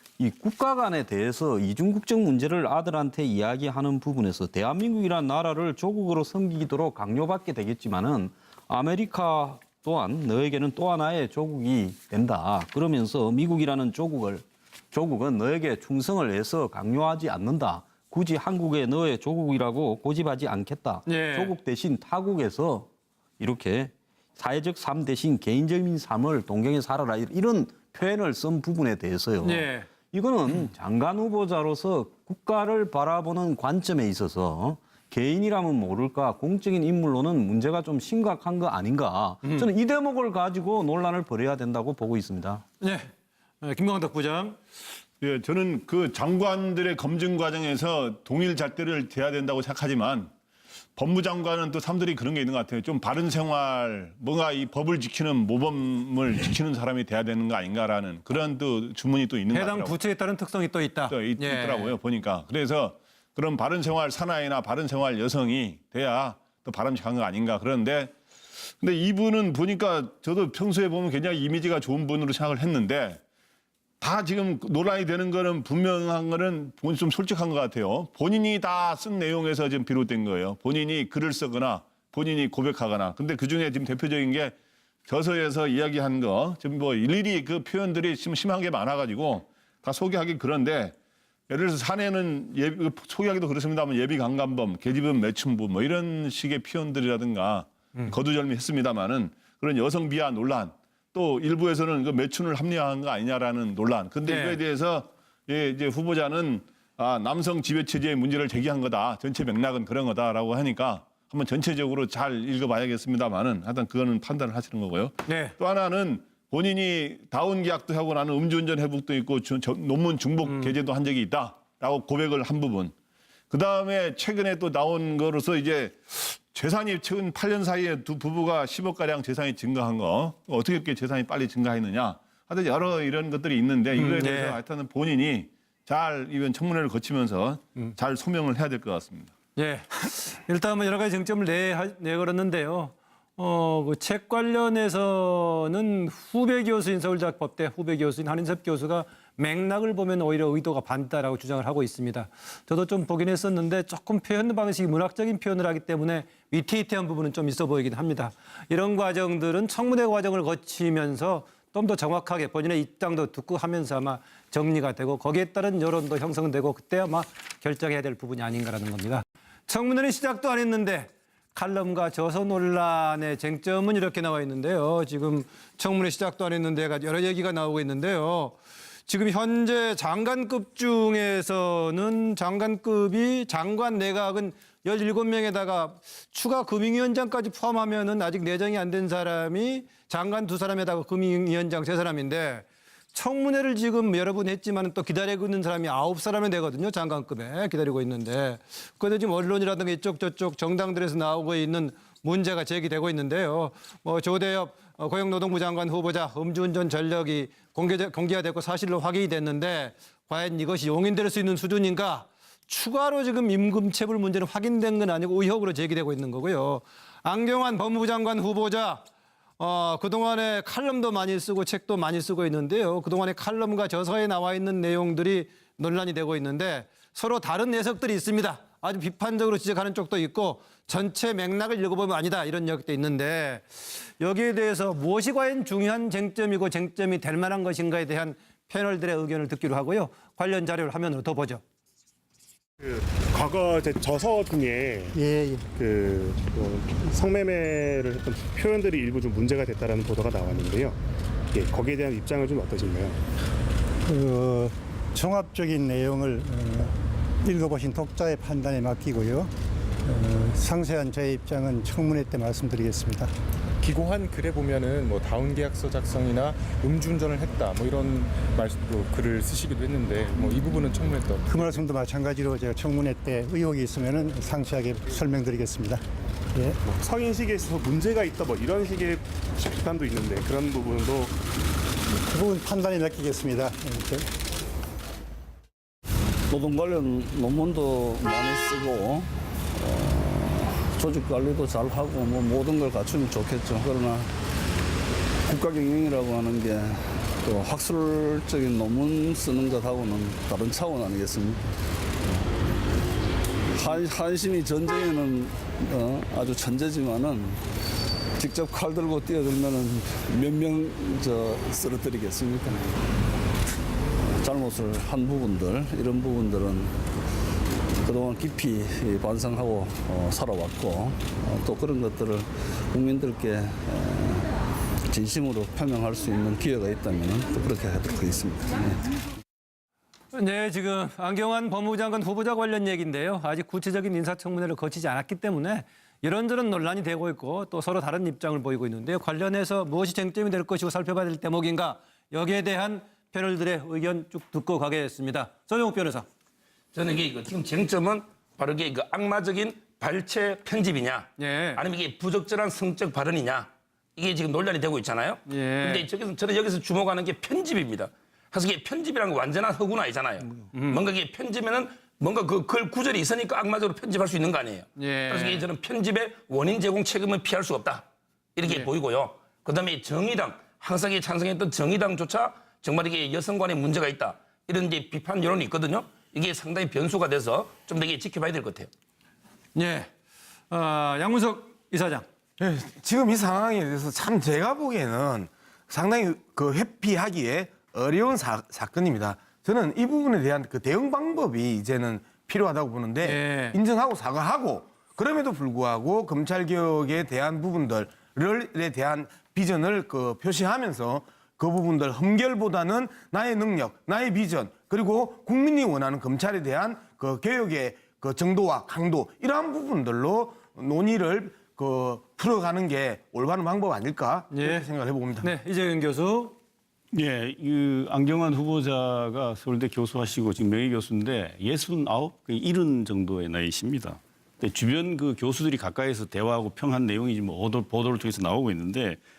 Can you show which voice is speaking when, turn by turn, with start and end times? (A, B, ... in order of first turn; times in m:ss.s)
0:00.2-0:42.6 A
0:21.0-0:21.5 B
0:29.4-0:29.9 B
0:42.8-0:43.1 B
0:43.6-0:44.6 B
0:45.2-0:50.3 C
0:51.0-1:00.0 C
0:59.5-1:02.0 B
1:01.1-1:08.1 C
1:08.8-1:13.2 C
1:14.0-1:24.5 C
1:25.1-1:30.9 C
1:31.5-2:02.9 C
1:44.2-1:44.6 B
1:55.2-1:55.5 B
2:00.4-2:00.7 B
2:03.5-2:19.3 C
2:14.0-2:14.6 B
2:19.6-3:39.0 B
3:39.6-4:01.6 B
4:02.8-4:05.2 D
4:05.2-4:05.6 E
4:05.7-4:11.0 D
4:11.5-4:13.2 D
4:14.1-4:19.5 E
4:20.0-4:23.3 E
4:23.8-4:31.7 F
4:31.5-4:36.0 E
4:36.8-4:41.3 D
4:42.3-4:44.2 E
4:46.5-4:54.4 G
4:55.5-5:01.7 G
5:02.2-5:02.6 G
5:03.7-5:07.6 G
5:08.4-5:12.9 G
5:14.2-5:17.0 G
5:18.0-5:24.5 G
5:25.1-5:29.1 G
5:30.3-5:46.2 B
5:46.9-6:08.0 H
5:51.4-5:51.8 B
5:55.5-5:56.0 B
6:00.7-6:01.0 B
6:05.0-6:05.7 B
6:08.6-6:18.9 H
6:08.6-6:08.9 B
6:19.7-6:20.1 B
6:20.7-6:22.2 B
6:22.6-6:55.5 I
6:33.2-6:33.8 B
6:54.5-6:56.5 B
6:57.1-7:09.2 J